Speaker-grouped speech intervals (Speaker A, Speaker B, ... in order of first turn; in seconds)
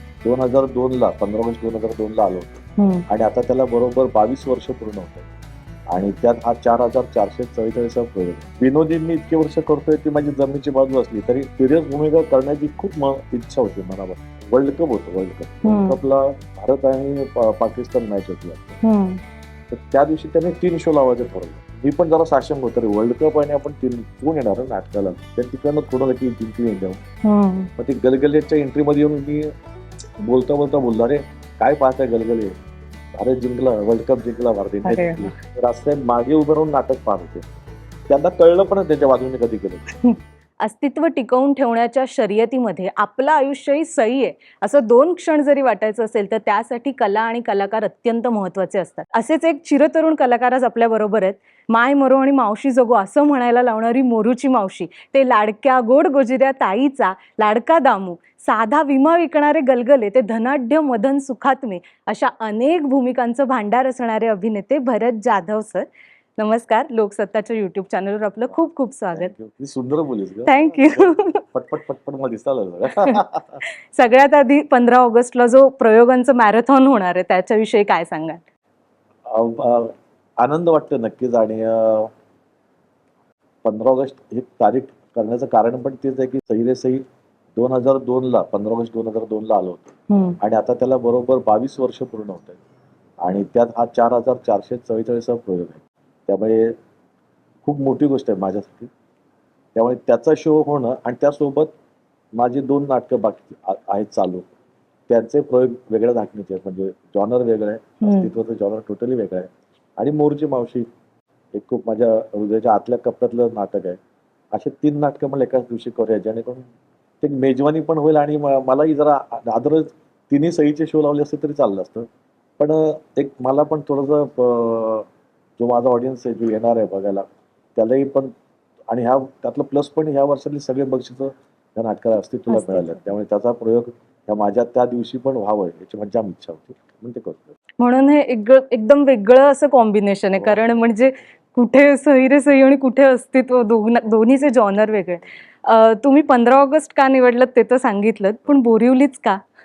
Speaker A: 0.2-5.3, 5.9-18.8, 19.7-27.0, 27.8-29.5, 30.2-32.5, 33.1-37.5, 38.1-40.0, 69.1-73.6, 79.3-82.1, 83.6-87.0, 87.6-92.6, 93.2-96.8, 97.7-98.9, 99.8-101.7, 102.4-104.5, 105.1-110.9, 111.5-114.0, 114.5-116.7, 117.2-122.1, 122.6-125.1, 125.6-127.2, 127.8-128.3, 128.9-137.5, 140.4-140.7
Speaker B: 2.8-3.1, 15.7-16.0, 18.8-19.2, 27.2-27.7, 34.9-35.4, 40.0-65.9, 66.4-69.3, 70.5-71.4, 73.9-78.4, 90.1-90.4, 108.0-108.3, 132.5-133.1, 137.8-149.4